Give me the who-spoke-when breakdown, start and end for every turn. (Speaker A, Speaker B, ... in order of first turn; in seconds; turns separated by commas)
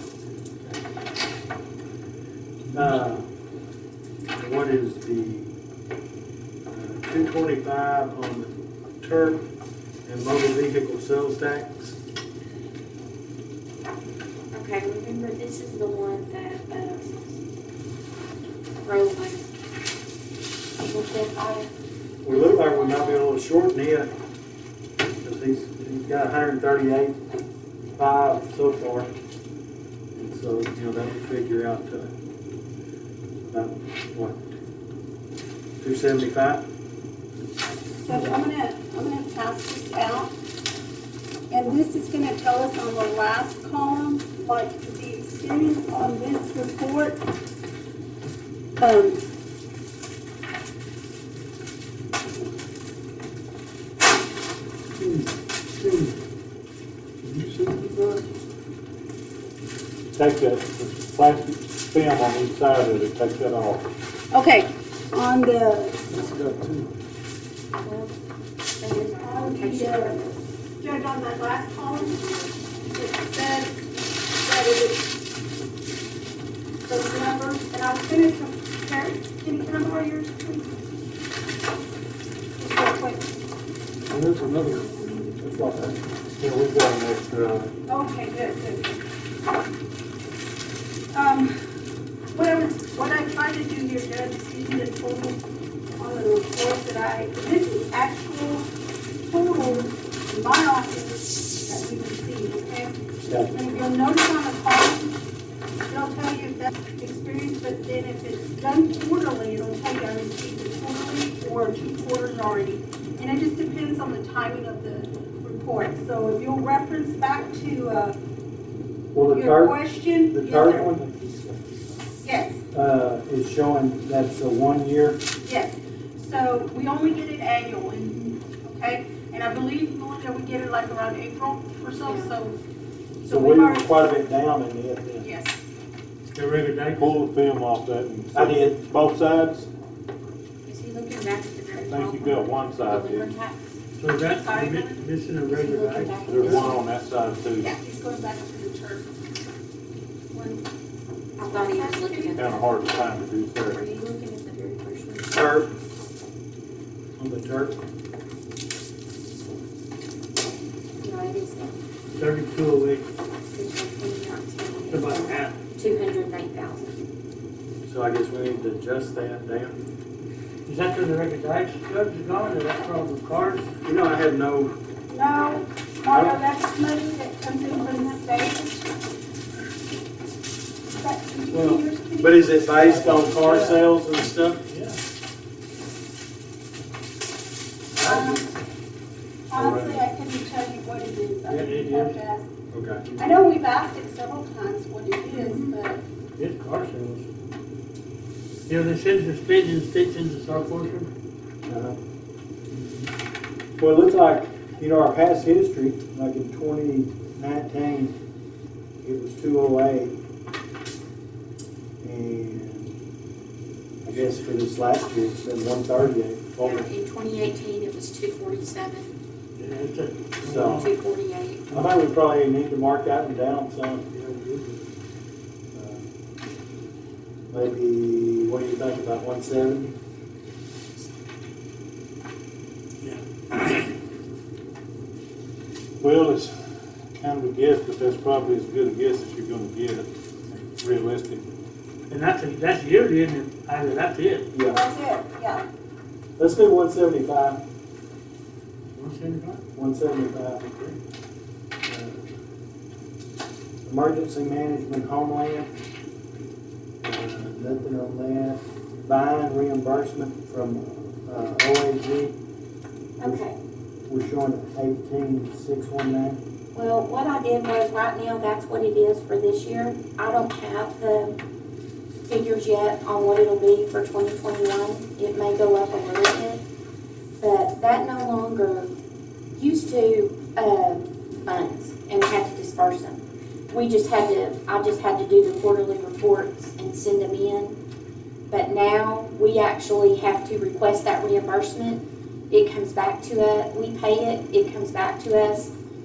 Speaker A: 2.7-3.2, Speaker A: 4.4-5.5, Speaker A: 6.7-9.4, Speaker A: 10.1-12.0, Speaker B: 14.5-17.4, Speaker B: 18.8-19.4, Speaker B: 20.8-21.7, Speaker A: 22.2-24.1, Speaker B: 22.2-23.3, Speaker A: 25.2-27.2, Speaker A: 28.0-29.1, Speaker A: 30.1-32.1, Speaker A: 33.4-34.5, Speaker A: 35.8-36.6, Speaker C: 38.0-40.3, Speaker C: 41.5-47.2, Speaker C: 48.8-49.2, Speaker D: 60.1-63.9, Speaker C: 64.3-66.1, Speaker B: 67.8-68.1, Speaker B: 68.8-70.4, Speaker C: 69.2-70.3, Speaker C: 70.8-75.1, Speaker B: 72.0-72.4, Speaker C: 76.8-80.8, Speaker C: 82.6-83.3, Speaker C: 84.7-85.4, Speaker A: 85.4-86.0, Speaker D: 86.4-87.7, Speaker C: 87.9-89.0, Speaker C: 91.1-91.5, Speaker C: 92.3-95.4, Speaker C: 96.0-105.2, Speaker A: 103.3-103.5, Speaker C: 105.9-118.2, Speaker A: 119.1-121.8, Speaker C: 119.3-120.9, Speaker C: 122.2-122.6, Speaker A: 122.7-125.2, Speaker C: 125.4-132.6, Speaker B: 132.0-132.4, Speaker C: 133.2-133.9, Speaker A: 133.3-135.3, Speaker C: 135.2-135.6, Speaker E: 136.3-137.2, Speaker D: 136.9-139.7, Speaker A: 138.3-138.8, Speaker B: 140.7-143.8, Speaker D: 141.9-143.3, Speaker E: 144.0-146.7, Speaker C: 144.3-145.1, Speaker B: 145.4-146.8, Speaker D: 146.3-147.7, Speaker C: 147.6-149.1, Speaker B: 150.3-150.7, Speaker B: 151.4-152.7, Speaker C: 151.5-152.4, Speaker D: 152.3-153.8, Speaker B: 153.7-155.7, Speaker A: 155.3-155.7, Speaker A: 157.2-157.8, Speaker B: 161.0-161.8, Speaker E: 162.1-163.1, Speaker B: 163.5-167.0, Speaker E: 164.9-165.6, Speaker A: 167.9-169.8, Speaker E: 170.7-173.7, Speaker A: 173.8-174.8, Speaker C: 175.1-178.9, Speaker A: 176.1-176.4, Speaker C: 181.0-182.8, Speaker A: 181.5-184.6, Speaker E: 182.8-183.9, Speaker E: 184.7-185.0, Speaker A: 188.0-188.5, Speaker C: 188.0-188.5, Speaker C: 189.5-192.5, Speaker A: 189.5-190.0, Speaker E: 191.5-192.2, Speaker A: 192.7-193.0, Speaker C: 193.2-196.0, Speaker E: 196.3-197.3, Speaker E: 198.7-201.1, Speaker A: 201.7-202.0, Speaker A: 203.8-208.2, Speaker A: 209.0-210.2, Speaker A: 212.0-212.9, Speaker A: 214.0-216.9, Speaker B: 216.6-219.2, Speaker E: 219.6-220.9, Speaker A: 220.4-220.8, Speaker B: 220.8-221.7, Speaker A: 221.7-224.1, Speaker E: 224.1-224.9, Speaker A: 225.7-226.1, Speaker A: 227.5-229.9, Speaker E: 233.0-233.8, Speaker D: 236.0-236.5, Speaker D: 237.2-241.5, Speaker E: 242.1-244.5, Speaker A: 244.5-244.8, Speaker C: 244.6-245.7, Speaker A: 246.4-247.6, Speaker E: 248.9-249.6, Speaker A: 249.8-250.7, Speaker A: 251.8-252.2, Speaker A: 253.9-255.7, Speaker A: 257.0-262.3, Speaker B: 263.2-263.6, Speaker A: 264.1-266.4, Speaker B: 266.7-271.4, Speaker B: 272.3-276.6, Speaker B: 277.4-278.9, Speaker B: 279.5-287.8, Speaker B: 288.5-295.7